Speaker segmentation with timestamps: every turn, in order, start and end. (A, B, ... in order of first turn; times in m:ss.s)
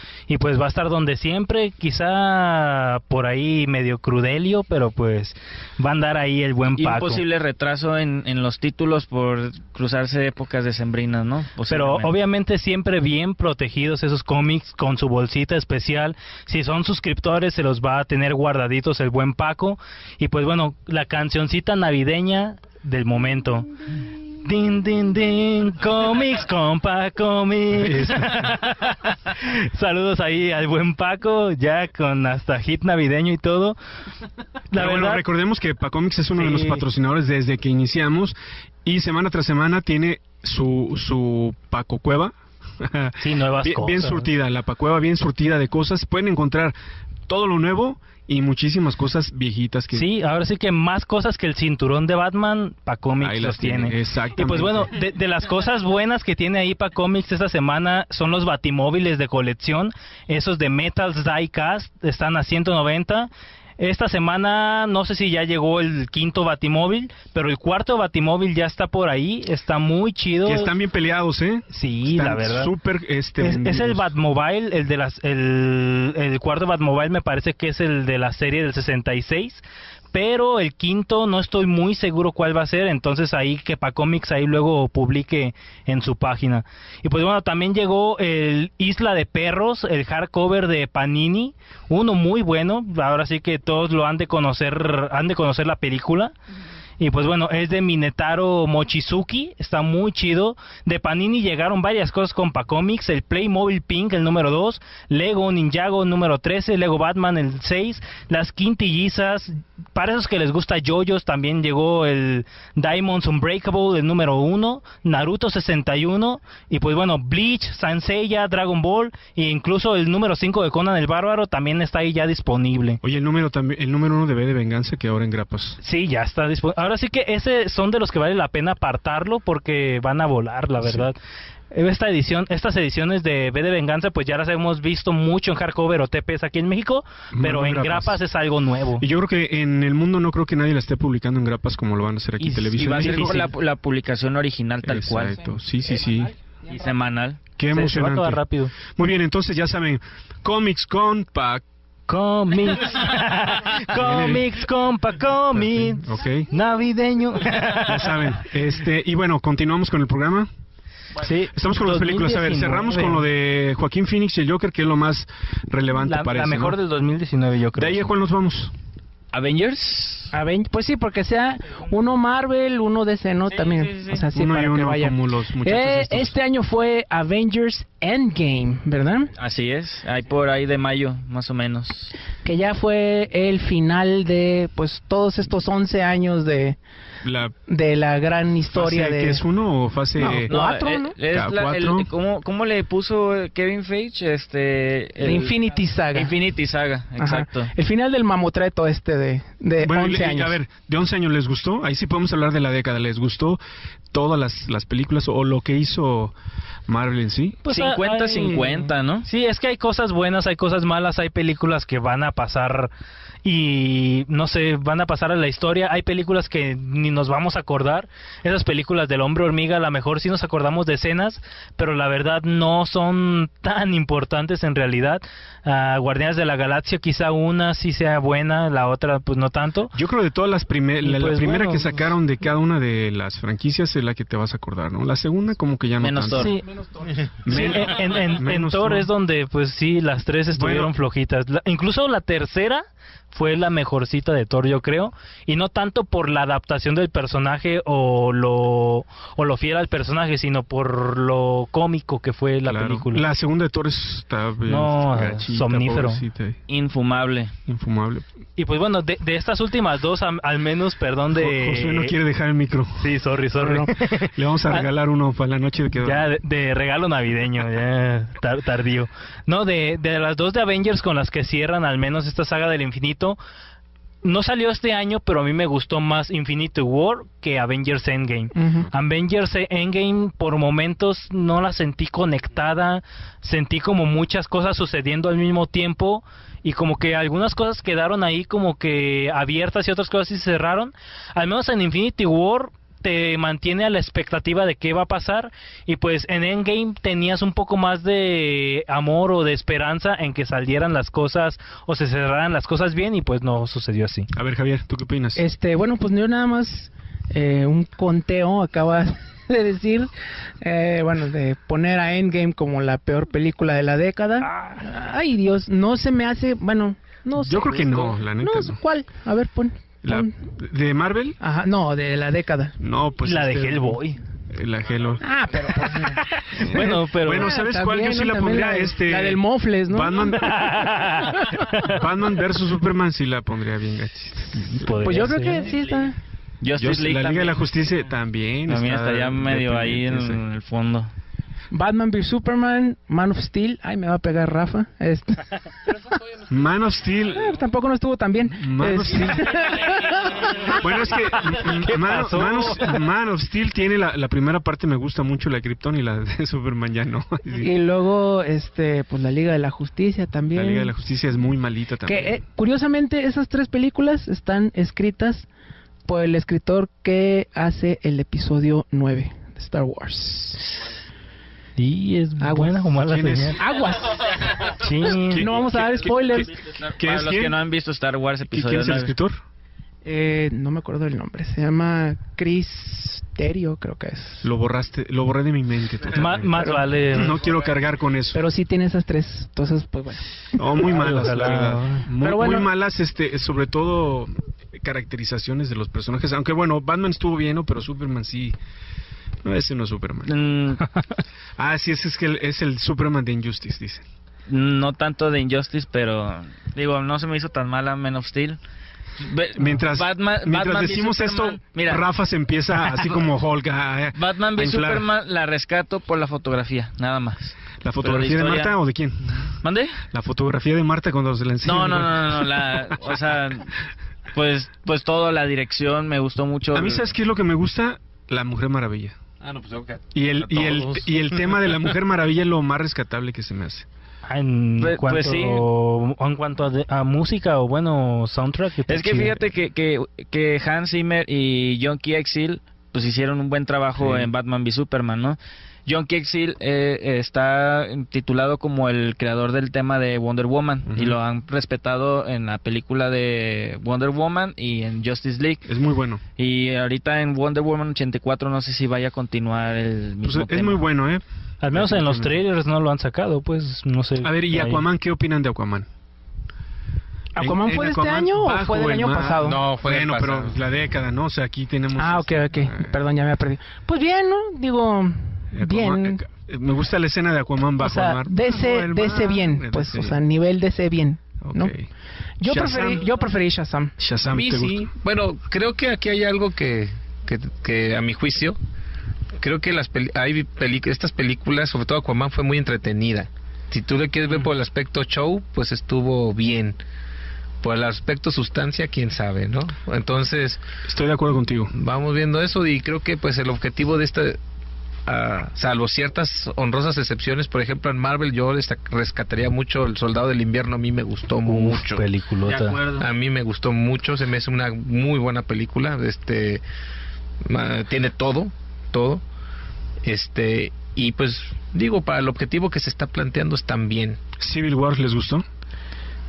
0:00.3-0:07.2 A
0:06.8-0:12.1 B
0:11.7-0:23.7 A
0:24.4-0:33.8 A
0:27.8-0:28.4 C
0:34.7-0:35.2 A
0:34.7-0:46.7 C
0:36.4-0:36.8 A
0:43.2-0:44.3 A
0:47.3-0:50.1 C
0:49.9-1:10.7 A
0:53.2-0:54.9 C
1:10.4-1:14.1 C
1:11.7-1:12.7 A
1:13.4-1:36.3 A
1:37.0-2:03.0 A
2:03.0-2:05.8 C
2:05.8-2:11.2 A
2:10.8-2:11.1 C
2:11.7-2:19.0 A
2:17.3-2:18.2 C
2:19.0-2:23.5 C
2:22.4-2:23.5 A
2:22.6-2:25.4 B
2:24.8-2:26.3 C
2:26.7-2:27.4 B
2:27.6-2:31.6 C
2:27.7-2:28.7 A
2:32.1-2:38.3 A
2:33.9-2:34.5 C
2:35.5-2:36.5 C
2:37.8-2:40.5 C
2:41.2-2:43.2 A
2:41.5-2:46.8 C
2:46.0-2:48.1 A
2:47.7-2:48.7 C
2:49.3-2:50.3 B
2:50.3-2:59.3 D
2:53.5-2:54.2 B
2:54.3-2:56.3 C
2:59.4-3:02.1 B
3:02.4-3:06.8 D
3:07.2-3:07.5 C
3:07.7-3:09.4 D
3:08.7-3:10.5 C
3:10.2-3:11.1 D
3:10.5-3:15.5 B
3:11.3-3:12.1 C
3:15.2-3:16.3 D
3:16.1-3:17.7 B
3:17.2-3:20.6 D
3:19.8-3:23.6 C
3:24.1-3:26.3 C
3:26.9-3:27.6 C
3:27.6-3:32.9 A
3:27.7-3:29.3 B
3:33.4-3:49.9 A
3:49.9-3:56.5 C
3:51.0-3:52.0 A
3:56.0-3:56.6 B
3:57.4-3:59.1 C
3:57.5-4:13.2 A
4:00.5-4:00.9 C
4:12.6-4:16.6 C
4:14.7-4:16.2 A
4:16.7-4:17.5 B
4:17.7-4:18.2 C
4:18.6-4:22.1 A
4:21.3-4:23.1 C
4:23.0-4:24.8 A
4:24.3-4:26.2 C
4:26.0-4:33.4 A
4:34.2-5:04.3 A
4:38.6-4:38.9 D
5:04.3-5:05.4 C
5:05.4-5:20.3 D
5:14.4-5:14.8 A
5:17.4-5:18.8 C
5:20.0-5:21.4 C
5:21.4-5:22.8 D
5:22.8-5:25.7 C
5:23.2-5:24.2 A
5:25.2-5:30.6 D
5:26.6-5:30.6 C
5:26.6-5:27.5 A
5:30.4-5:31.9 A
5:31.8-5:34.9 C
5:34.5-5:35.7 A
5:35.0-5:36.2 D
5:36.6-5:37.6 B
5:36.8-5:40.4 C
5:38.7-5:41.1 B
5:41.7-5:45.5 D
5:46.5-5:47.5 C
5:47.3-5:50.8 D
5:48.5-5:49.6 C
5:50.7-5:57.7 C
5:51.6-5:53.0 A
5:57.6-6:00.9 D
6:00.5-6:02.4 C
6:02.0-6:05.5 D
6:06.0-6:10.7 D
6:11.8-6:13.6 A
6:12.4-6:12.8 D
6:13.0-6:13.6 C
6:13.6-6:14.2 D
6:14.8-6:15.4 A
6:15.0-6:17.6 C
6:15.3-6:16.5 D
6:16.8-6:19.1 B
6:18.5-6:19.4 C
6:20.0-6:24.4 D
6:24.4-6:28.4 C
6:26.1-6:27.4 A
6:28.3-6:30.2 D
6:30.6-6:38.6 C
6:30.9-6:32.1 A
6:32.2-6:32.7 D
6:39.4-6:40.4 C
6:40.2-6:40.8 B
6:41.6-6:44.0 C
6:44.5-6:48.6 B
6:49.2-6:52.0 B
6:49.6-6:55.1 C
6:52.9-6:53.2 B
6:54.1-6:58.7 B
6:57.8-6:59.5 C
6:59.6-7:00.0 B
7:00.1-7:03.2 C
7:01.6-7:03.7 B
7:04.3-7:07.1 B
7:06.7-7:09.2 C
7:09.4-7:11.7 E
7:10.1-7:13.8 C
7:14.2-7:19.4 A
7:14.8-7:15.6 B
7:18.9-7:35.7 B
7:24.0-7:24.3 C
7:30.9-7:31.2 C
7:35.6-7:36.2 C
7:36.4-7:40.8 B
7:40.2-7:42.4 C
7:41.6-7:44.8 A
7:44.2-7:45.9 C
7:47.4-7:49.6 D
7:47.4-7:53.0 C
7:49.4-7:50.6 E
7:52.0-7:56.2 D
7:55.5-8:00.2 C
7:57.8-8:01.7 D
8:01.4-8:01.8 C
8:02.4-8:04.9 D
8:02.4-8:03.1 C
8:04.0-8:04.9 C
8:05.0-8:08.6 E
8:09.4-8:16.8 E
8:17.6-8:20.6 E
8:20.9-8:21.7 C
8:21.7-8:24.4 E
8:25.0-8:32.0 E
8:31.4-8:32.8 A
8:32.4-8:33.1 B
8:33.0-8:36.6 E
8:37.4-8:39.2 E
8:40.0-8:44.2 E
8:44.4-8:45.4 C